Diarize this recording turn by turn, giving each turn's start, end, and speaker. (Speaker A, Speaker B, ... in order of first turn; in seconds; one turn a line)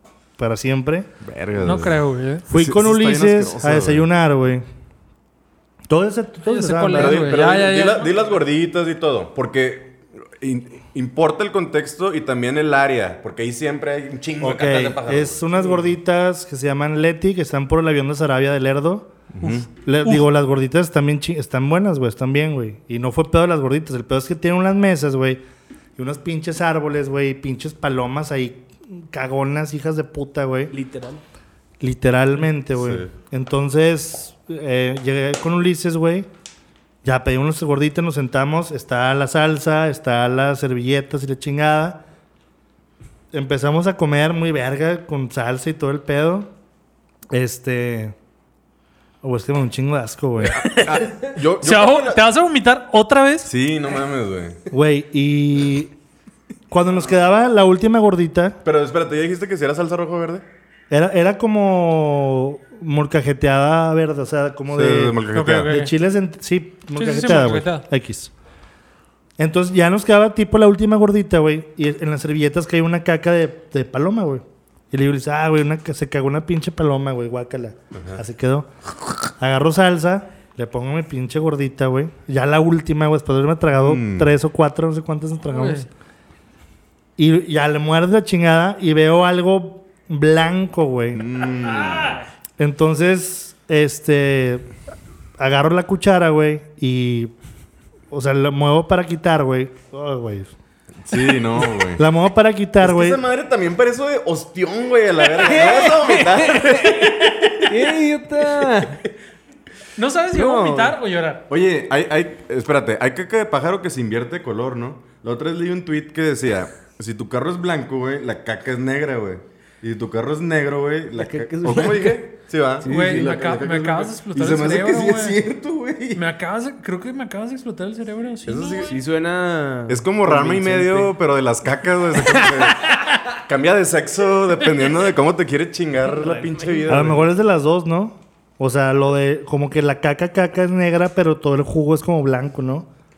Speaker A: 0.4-1.1
Speaker B: 1.2-2.0
Speaker C: 1.6-2.5
Speaker A: 2.5-4.6
Speaker B: 2.5-4.1
Speaker A: 5.9-7.3
Speaker C: 6.5-8.1
Speaker B: 6.9-15.4
Speaker A: 14.4-19.1
Speaker B: 19.4-19.7
Speaker C: 19.4-20.3
Speaker A: 19.7-25.4
Speaker A: 26.0-30.7
Speaker D: 30.7-31.2
Speaker A: 31.8-36.3
Speaker B: 32.8-33.1
Speaker A: 37.0-42.0
Speaker A: 43.3-46.5
Speaker A: 47.3-48.1
Speaker A: 49.2-50.8
Speaker B: 50.5-52.2
Speaker C: 51.6-53.5
Speaker B: 53.5-54.6
Speaker A: 54.7-55.9
Speaker A: 56.7-58.6
Speaker B: 58.6-60.5
Speaker A: 60.9-68.3
Speaker B: 64.7-65.7
Speaker C: 65.3-65.9
Speaker C: 67.0-67.8
Speaker A: 69.4-78.7
Speaker B: 78.0-78.2
Speaker A: 79.3-85.9
Speaker B: 83.8-84.3
Speaker C: 85.5-85.9
Speaker A: 87.2-91.3
Speaker B: 91.2-92.2
Speaker A: 92.6-94.7
Speaker A: 95.4-97.3
Speaker A: 98.1-100.5
Speaker B: 101.0-102.0
Speaker A: 101.8-103.2
Speaker B: 102.8-107.7
Speaker D: 105.2-109.0
Speaker B: 108.6-108.9
Speaker C: 110.0-111.5
Speaker D: 110.3-111.0
Speaker B: 111.5-126.2
Speaker D: 121.2-122.3
Speaker D: 122.8-123.4
Speaker C: 122.8-125.4
Speaker C: 126.1-129.0
Speaker B: 128.5-129.0
Speaker D: 128.9-131.2
Speaker B: 129.9-137.3
Speaker D: 136.1-137.1
Speaker A: 136.9-142.9